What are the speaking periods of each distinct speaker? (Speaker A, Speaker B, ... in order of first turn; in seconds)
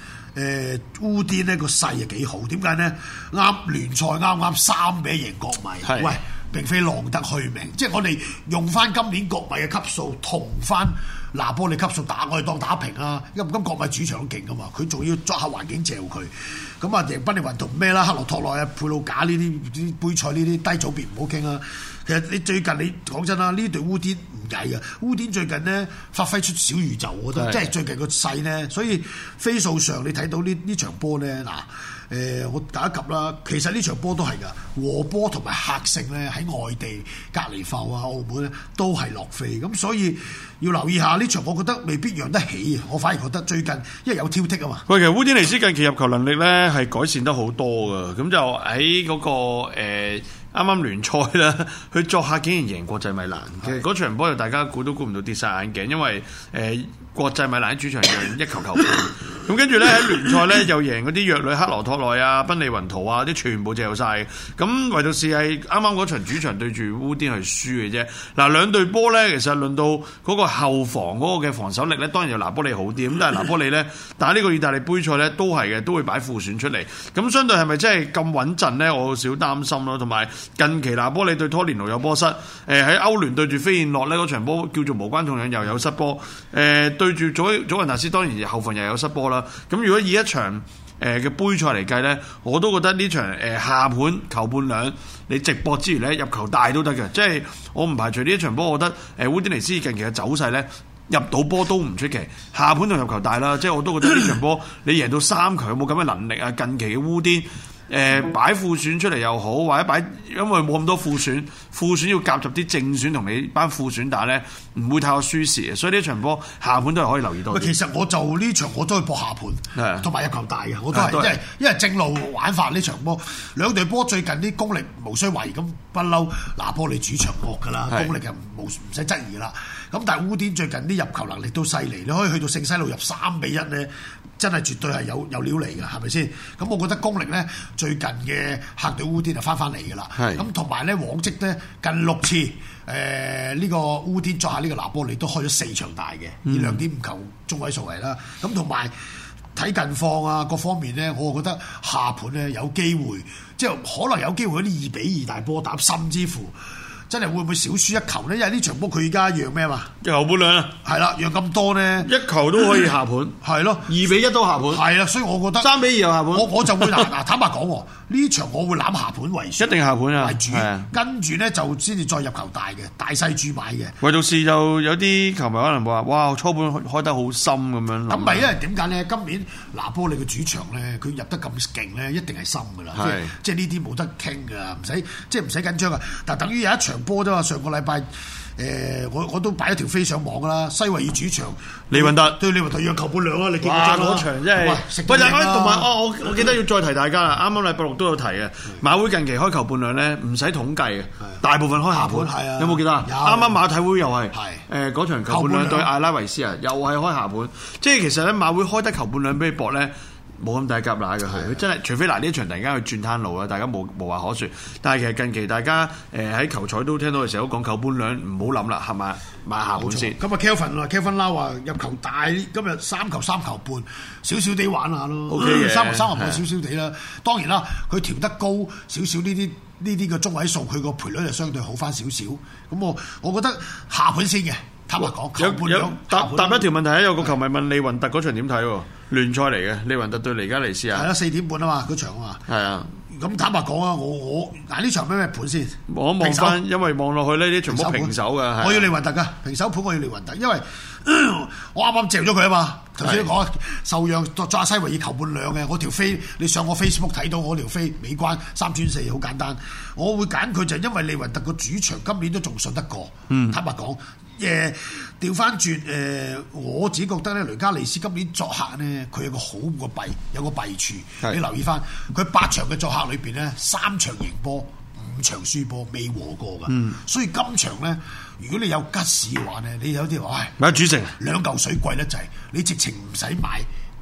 Speaker A: 0.3-44.9, 117.5-148.9, 149.6-156.6, 157.1-159.9, 160.8-162.1, 163.4-163.9, 164.7-165.8, 166.3-173.9, 178.1-196.5, 201.9-203.6, 204.3-204.6, 205.3-205.9, 211.3-211.6, 219.7-236.7, 240.9-242.4, 243.1-246.6, 247.7-283.7
Speaker B: 5.9-6.1, 27.4-27.6, 44.9-117.7, 119.8-120.1, 120.9-121.4, 140.2-140.4, 146.4-146.8, 160.0-160.8, 162.0-164.8, 165.6-167.1, 169.6-170.9, 174.0-178.5, 182.9-183.3, 191.9-192.4, 193.6-220.2, 225.3-226.4, 235.1-241.1, 242.5-242.9, 245.9-248.9, 253.0-253.3, 263.3-263.6, 276.7-277.0, 280.6-281.1